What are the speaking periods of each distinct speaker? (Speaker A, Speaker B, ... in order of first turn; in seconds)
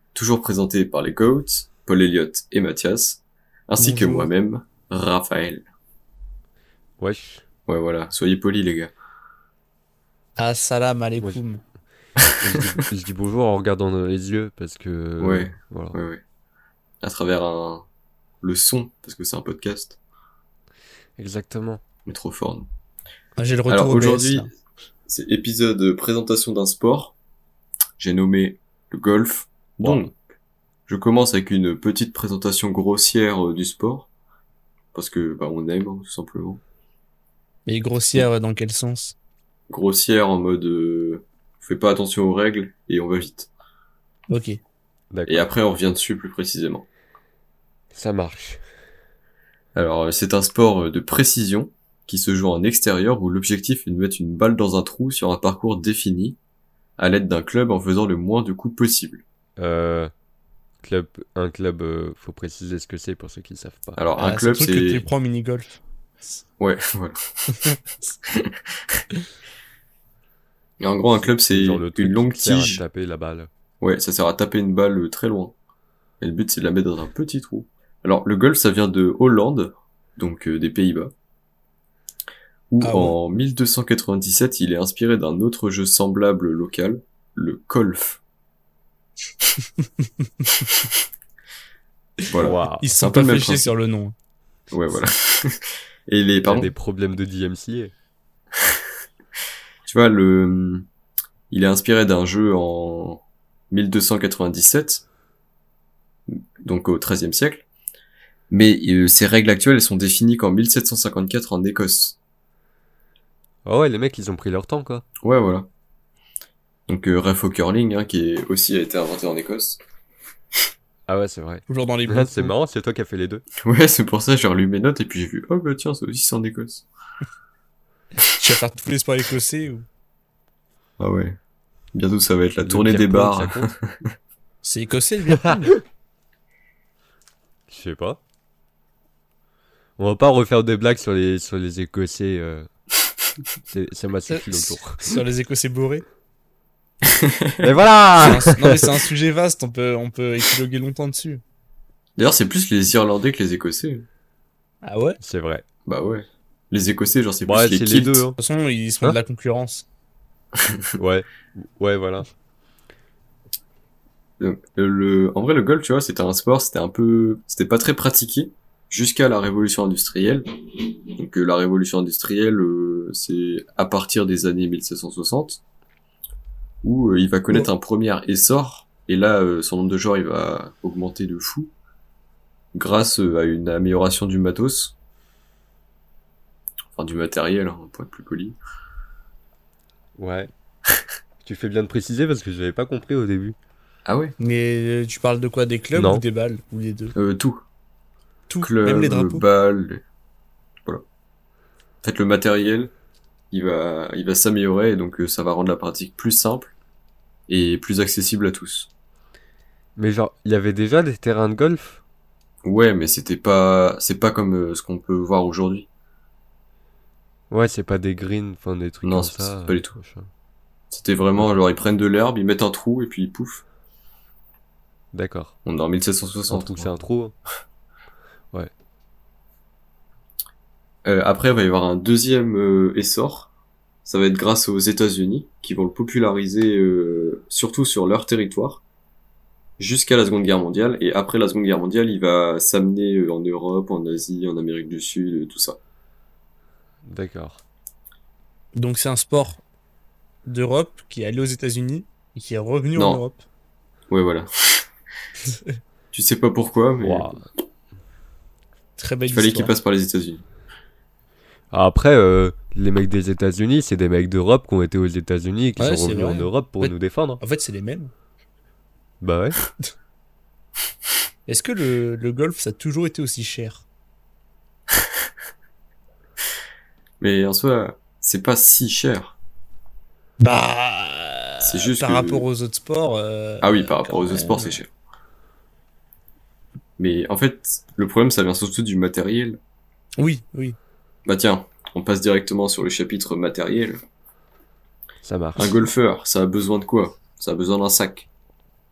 Speaker A: 0.1-5.7, 7.7-8.9, 15.2-16.2, 17.0-17.9, 18.4-20.0, 22.1-22.7, 23.7-24.5, 25.1-27.1, 28.0-30.2, 30.9-34.1, 34.9-36.6, 39.7-43.5, 45.3-46.9, 49.8-56.4, 57.0-59.2, 64.0-65.0, 66.6-67.8, 68.3-68.5, 70.8-72.8, 73.8-75.5, 76.2-81.1, 82.7-88.2, 92.3-93.7, 94.7-96.7, 99.9-100.9, 101.5-105.0, 106.3-107.7, 108.5-112.2, 115.2-115.7, 116.9-119.8, 123.6-126.9, 131.0-131.4, 131.9-134.0, 147.1-147.6, 152.2-154.1, 155.9-158.3, 164.4-170.4, 171.2-175.6, 176.8-181.7, 182.7-184.9, 186.9-188.6, 194.1-194.3, 197.2-197.6, 198.6-200.0, 202.0-202.9, 203.5-206.7, 207.5-208.9, 212.6-215.9, 219.0-219.9, 220.9-223.6, 225.7-226.9, 231.1-233.5, 234.1-238.8, 239.8-245.8, 253.0-253.2, 254.1-254.8, 256.1-257.4, 259.3-260.4, 277.2-279.4, 281.6-282.5, 283.6-284.9, 287.0-289.6, 291.3-294.0, 295.6-298.3
Speaker B: 3.8-4.3, 10.4-11.6, 23.4-24.5, 37.7-39.1, 44.3-44.6, 64.2-66.3, 82.8-83.2, 92.8-94.2, 121.7-122.5, 128.2-129.9, 134.6-135.7, 144.3-146.1, 148.2-151.4, 154.8-155.2, 158.4-159.8, 194.4-197.1, 198.5-199.4, 248.8-249.6, 250.5-253.4, 259.0-259.7, 265.8-268.1, 271.5-273.8, 280.4-284.8, 290.2-290.8
Speaker C: 7.0-7.4, 12.4-16.0, 21.2-21.8, 29.8-30.1, 45.1-45.5, 47.9-48.6, 59.6-60.1, 60.8-64.0, 71.5-73.5, 92.4-92.9, 96.4-97.9, 113.7-115.0, 121.1-123.5, 132.6-133.7, 135.3-135.8, 137.7-138.2, 140.0-142.7, 143.7-145.0, 147.6-148.9, 155.2-155.6, 157.4-158.4, 161.0-162.3, 190.2-190.5, 191.4-193.6, 195.9-196.2, 210.0-212.0, 217.5-220.3, 225.1-225.6, 226.5-227.3, 247.0-247.6, 257.0-257.4, 261.7-267.4, 269.2-269.6, 295.2-295.7